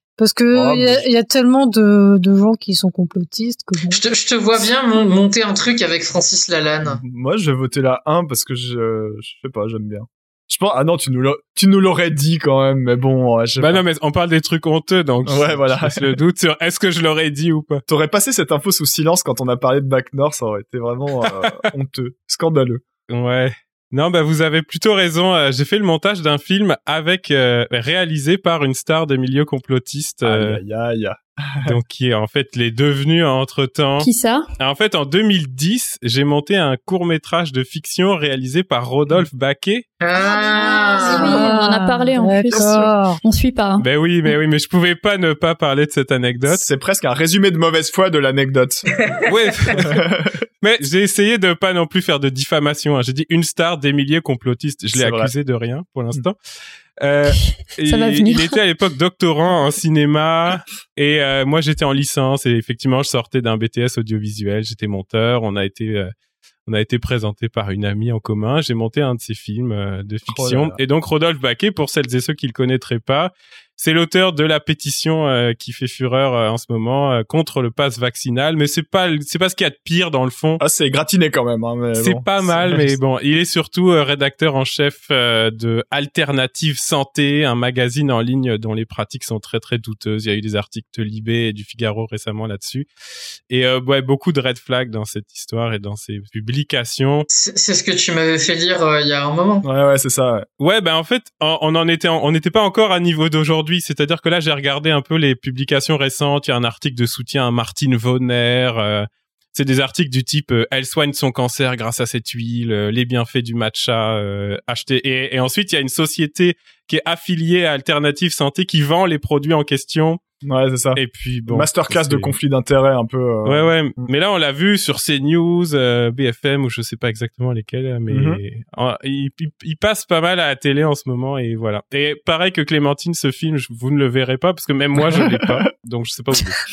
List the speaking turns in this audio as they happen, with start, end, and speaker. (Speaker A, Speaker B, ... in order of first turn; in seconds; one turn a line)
Speaker A: 0.2-4.0
Speaker B: 0.5-1.0
Speaker C: 3.9-7.0
Speaker B: 6.8-13.8
Speaker D: 13.6-17.8
Speaker B: 15.2-16.1
Speaker B: 17.9-22.8
Speaker D: 23.1-30.6
Speaker B: 30.2-31.8
Speaker D: 31.6-39.9
Speaker E: 34.0-34.5
Speaker C: 40.0-41.4
Speaker E: 40.2-43.9
Speaker A: 40.5-43.2
Speaker B: 42.5-42.9
Speaker D: 43.8-46.6
Speaker B: 46.5-48.8
Speaker C: 48.9-49.3
Speaker D: 49.3-50.0
Speaker B: 49.7-50.4
Speaker D: 50.6-56.4
Speaker B: 54.9-55.3
Speaker D: 57.0-66.1
Speaker E: 57.8-58.5
Speaker D: 66.7-80.6
Speaker B: 70.3-70.8
Speaker B: 80.6-83.0
Speaker D: 82.0-92.9
Speaker D: 93.5-97.3
Speaker C: 97.3-99.6
Speaker B: 99.6-100.5
Speaker D: 100.6-120.2
Speaker B: 120.4-124.1
Speaker D: 121.0-122.3
Speaker D: 123.5-136.6
Speaker B: 128.1-128.4
Speaker B: 135.0-135.6